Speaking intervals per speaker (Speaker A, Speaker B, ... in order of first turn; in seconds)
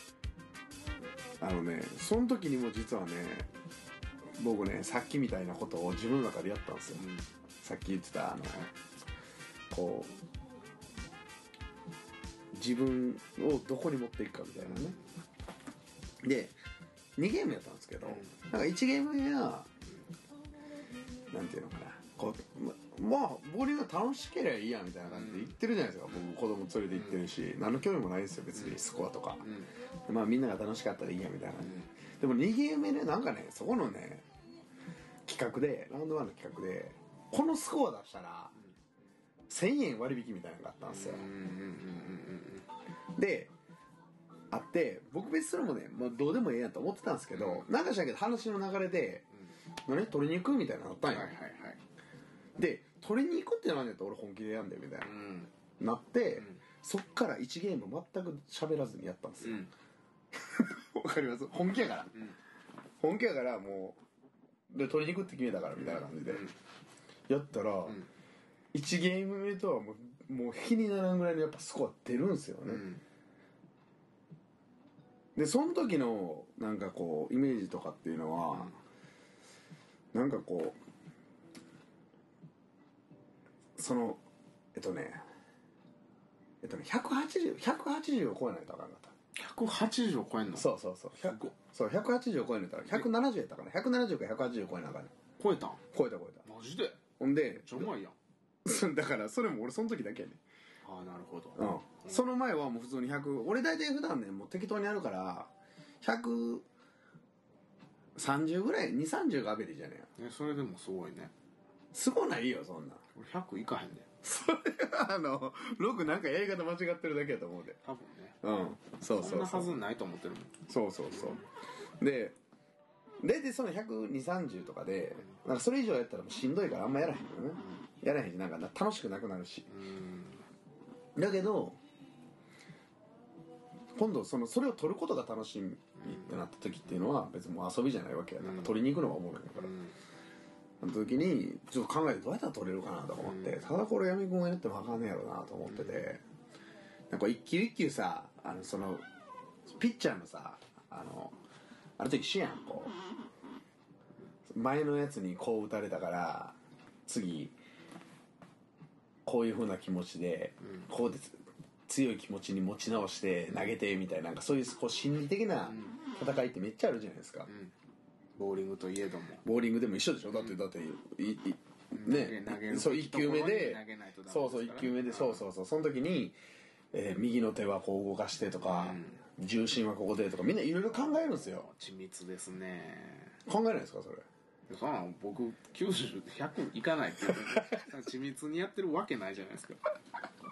Speaker A: 1.4-3.5, 4.3-7.0, 7.6-8.6, 9.7-10.2, 12.5-15.0, 16.2-16.6, 17.2-19.7, 21.3-29.4, 30.1-34.2, 35.2-38.5, 39.5-41.3, 43.1-43.5, 44.5-49.2, 49.9-51.3, 52.6-55.1, 55.8-59.7, 60.4-62.1, 63.0-64.0, 64.7-66.5, 67.3-68.0, 68.7-72.8, 75.3-78.7, 80.1-80.8, 83.8-84.2, 84.7-85.2, 86.6-89.1, 90.5-95.1, 95.9-96.5, 97.2-97.9, 98.6-100.4, 101.5-105.5, 106.0-106.7, 108.2-110.1, 111.9-113.0, 114.2-117.8, 118.4-119.8, 120.7-121.4, 122.0-122.4, 123.2-129.7, 131.2-131.8, 133.9-139.7, 140.8-146.2, 147.1-149.0, 149.7-151.4, 152.0-152.9, 154.5-157.6, 159.2-167.5, 169.4-176.4, 176.9-181.7, 183.4-184.2, 187.3-187.9
Speaker B: 7.0-7.3, 14.6-15.0, 18.0-18.3, 25.1-25.5, 29.4-29.7, 31.6-31.9, 40.8-42.7, 47.3-47.7, 51.1-51.8, 55.0-55.5, 56.4-56.6, 59.4-59.7, 65.8-66.5, 72.7-73.0, 78.5-78.8, 89.3-91.5, 95.4-95.8, 96.5-97.0, 97.6-98.2, 100.8-102.2, 110.2-111.3, 113.1-114.1, 117.8-118.4, 119.1-120.6, 121.1-121.4, 129.7-130.4, 136.0-136.4, 138.4-138.8, 139.6-139.9, 143.2-143.6, 145.7-146.0, 160.6-160.9, 165.7-166.0, 167.5-167.7, 168.3-169.4, 171.9-175.4, 178.6-179.2, 181.4-183.4, 184.7-189.8